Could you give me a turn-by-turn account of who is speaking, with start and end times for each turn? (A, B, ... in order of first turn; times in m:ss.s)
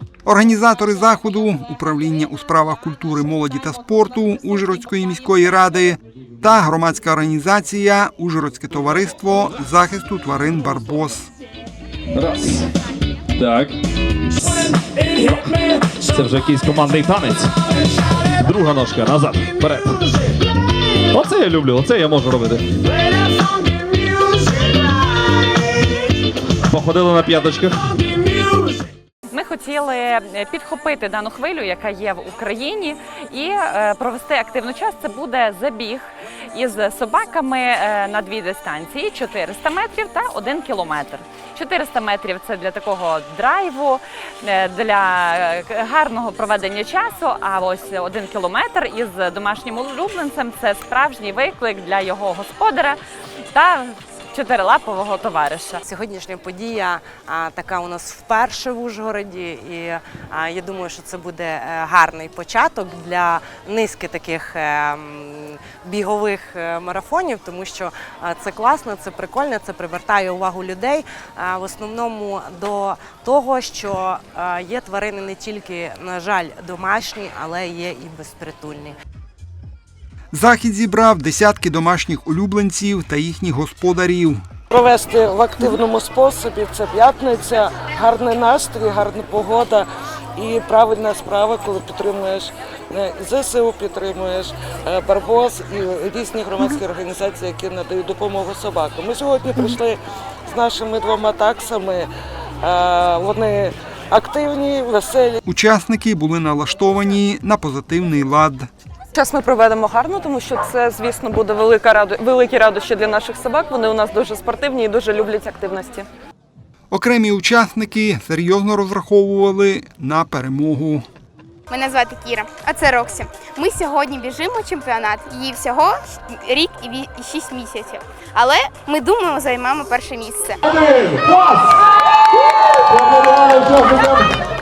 0:00.2-0:11.3 A
0:12.1-0:12.7 B
0:13.4-0:13.8 B
0:15.2-0:17.5 B
0:18.3-0:20.1 B
0:21.1-0:22.7 B
0:26.7-0:28.4 B
0:29.3-0:53.0 C
0:53.5-0:55.8 C
0:55.8-1:18.9 D
1:20.3-1:24.4 A
1:24.7-1:42.1 E
1:42.6-1:45.4 E
1:45.4-1:48.7 A
1:49.1-1:56.1 F
1:56.9-2:01.0 A
2:01.7-2:11.0 G